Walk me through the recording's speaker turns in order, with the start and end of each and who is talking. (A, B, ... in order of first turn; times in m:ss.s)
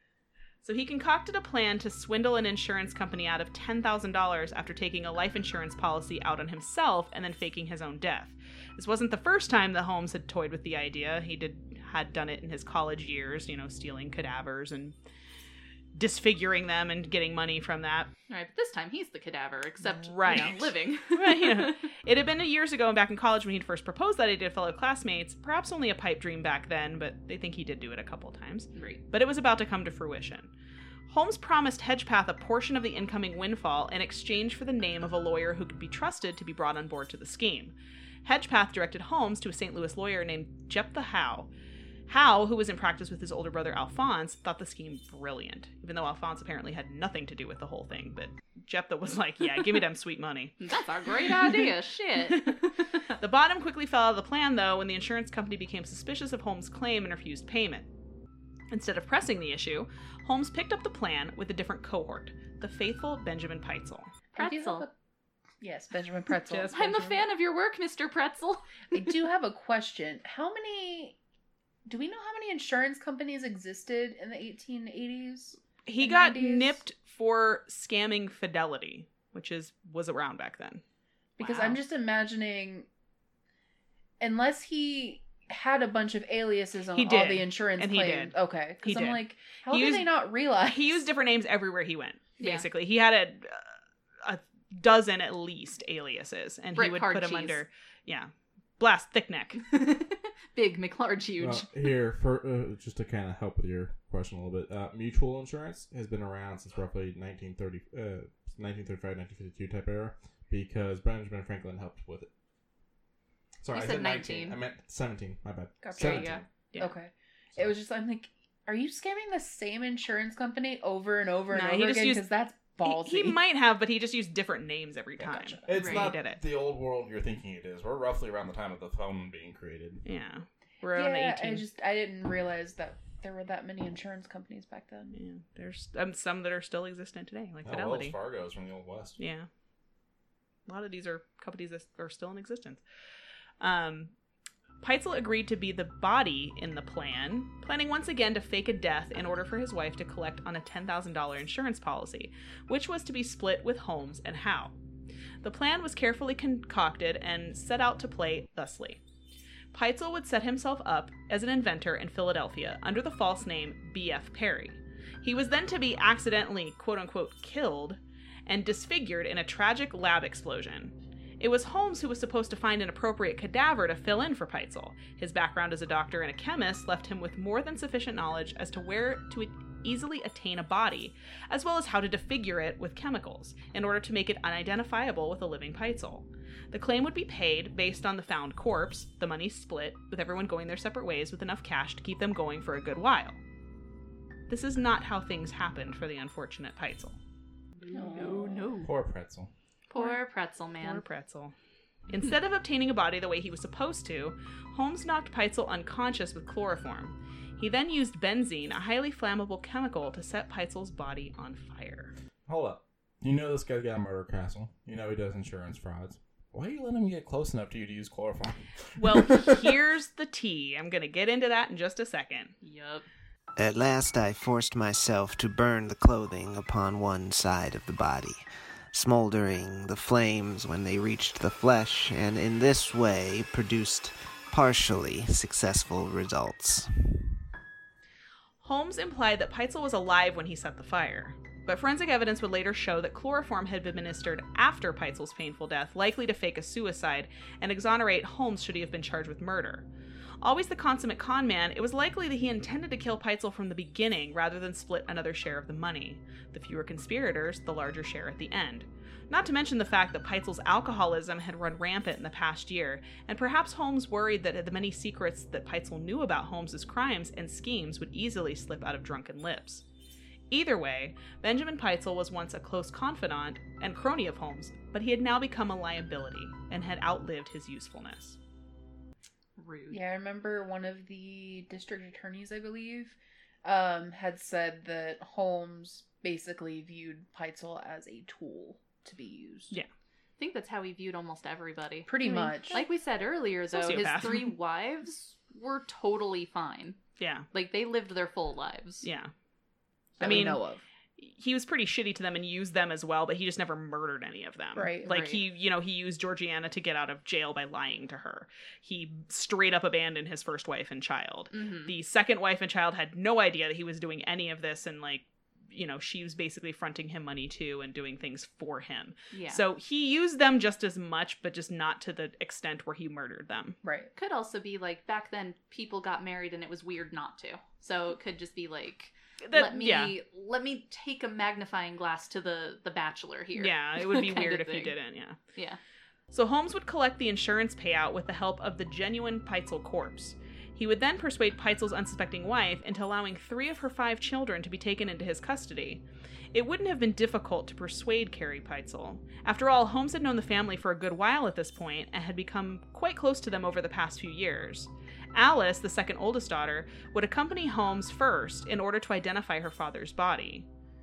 0:00.6-0:15.0 A
0:16.0-0:18.1 A
0:18.3-0:21.9 B
0:19.9-0:30.5 A
0:28.7-0:29.0 B
0:31.1-0:41.5 A
0:42.1-0:50.6 A
0:50.6-0:52.7 B
0:51.2-0:51.7 A
0:52.3-0:57.9 A
0:58.7-1:04.1 A
1:04.3-1:04.9 C
1:04.4-1:04.9 B
1:05.6-1:07.1 C
1:06.5-1:07.2 A
1:06.7-1:08.8 B
1:08.9-1:11.2 C
1:11.9-1:16.8 C
1:15.9-1:20.8 A
1:21.4-1:22.9 C
1:21.4-1:21.8 A
1:24.2-1:31.0 C
1:26.9-1:39.6 A
1:32.4-1:32.6 B
1:36.7-1:37.6 B
1:39.6-1:41.7 B
1:41.4-1:52.3 D
1:53.6-1:56.5 D
1:53.7-1:54.6 B
1:55.8-2:03.4 C
1:56.0-1:56.4 B
2:01.5-2:02.3 A
2:02.8-2:06.4 A
2:05.2-2:06.1 C
2:05.7-2:10.0 D
2:05.8-2:06.1 B
2:10.0-2:11.6 A
2:10.9-2:15.2 C
2:15.1-2:18.2 A
2:17.6-2:19.2 D
2:19.2-2:19.5 A
2:20.7-2:22.8 A
2:23.6-2:24.1 A
2:24.8-2:34.8 A
2:35.4-2:39.0 A
2:39.7-3:13.4 A
3:14.5-3:17.2 A
3:17.9-3:18.6 C
3:18.1-3:18.9 B
3:18.2-3:18.9 A
3:18.8-3:19.5 D
3:19.9-3:21.0 B
3:20.8-3:21.5 A
3:22.1-3:32.1 A
3:32.4-3:39.6 D
3:39.0-3:42.6 A
3:42.6-3:43.1 B
3:43.6-3:57.2 E
3:58.6-4:09.9 A
4:10.4-4:29.8 A
4:30.5-4:38.4 A
4:39.6-4:40.0 B
4:39.9-4:49.8 C
4:50.4-4:57.0 B
4:52.1-4:52.8 C
4:53.7-4:54.5 A
4:57.2-4:57.5 A
4:57.5-4:59.0 B
4:59.0-4:59.3 A
5:00.2-5:00.5 B
5:00.2-5:00.6 A
5:00.2-5:00.8 C
5:01.2-5:23.8 A
5:04.7-5:05.1 C
5:05.0-5:05.4 B
5:11.5-5:11.9 B
5:19.3-5:19.6 B
5:23.8-5:24.1 C
5:24.1-5:35.0 B
5:29.4-5:30.1 A
5:33.6-5:35.4 A
5:35.5-5:35.8 B
5:36.3-6:00.7 A